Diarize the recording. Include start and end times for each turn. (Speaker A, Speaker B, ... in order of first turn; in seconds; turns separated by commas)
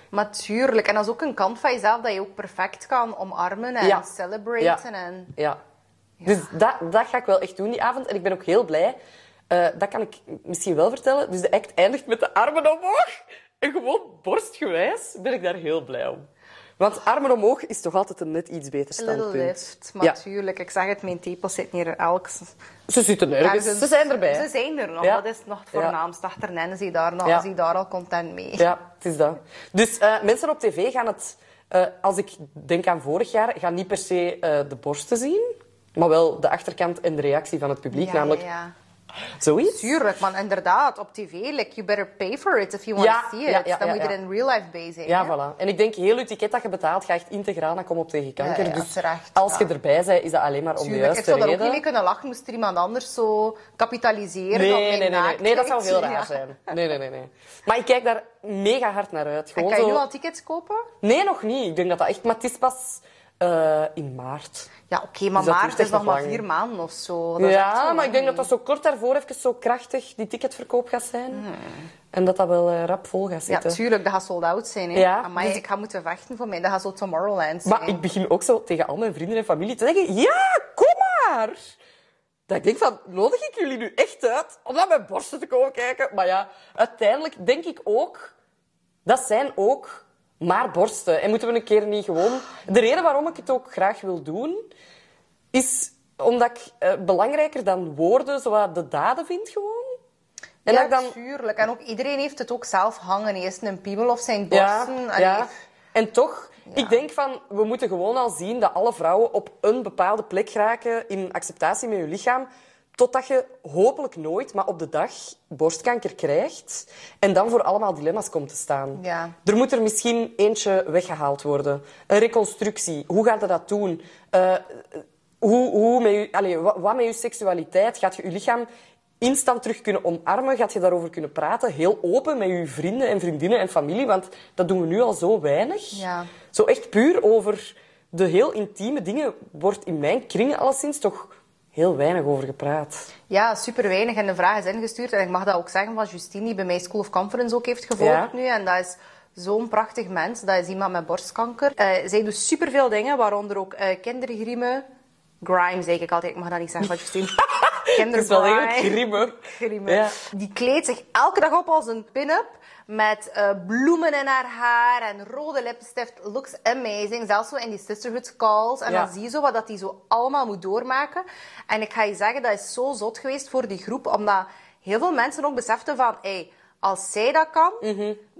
Speaker A: 0.1-5.3, Speaker B: 3.8-4.1, Speaker B: 6.2-9.0, Speaker B: 9.5-16.3, Speaker B: 16.8-20.2, Speaker A: 19.0-22.5, Speaker B: 22.9-24.5, Speaker A: 23.4-28.7, Speaker B: 25.0-25.9, Speaker B: 28.6-38.4, Speaker A: 37.9-38.7, Speaker B: 39.4-40.0, Speaker A: 39.7-45.4, Speaker B: 43.0-44.1, Speaker B: 45.1-51.8, Speaker A: 48.4-49.7, Speaker A: 50.8-56.4, Speaker B: 54.5-60.0, Speaker A: 59.6-60.9, Speaker B: 61.0-64.7, Speaker A: 64.9-68.5, Speaker B: 65.4-66.4, Speaker B: 67.4-71.5, Speaker A: 71.3-71.9, Speaker B: 72.1-73.8, Speaker A: 73.5-78.0, Speaker B: 75.0-75.6, Speaker B: 77.7-81.7, Speaker B: 82.5-88.3, Speaker B: 89.1-94.7, Speaker B: 95.5-100.0, Speaker B: 100.7-101.2, Speaker A: 100.7-105.5, Speaker B: 104.5-128.7, Speaker A: 106.7-107.0, Speaker A: 119.0-119.3, Speaker B: 129.2-143.1, Speaker A: 135.9-136.3, Speaker A: 143.3-154.9, Speaker B: 148.0-148.3, Speaker A: 155.4-177.9, Speaker B: 157.5-160.2, Speaker B: 168.9-169.1, Speaker B: 177.8-178.2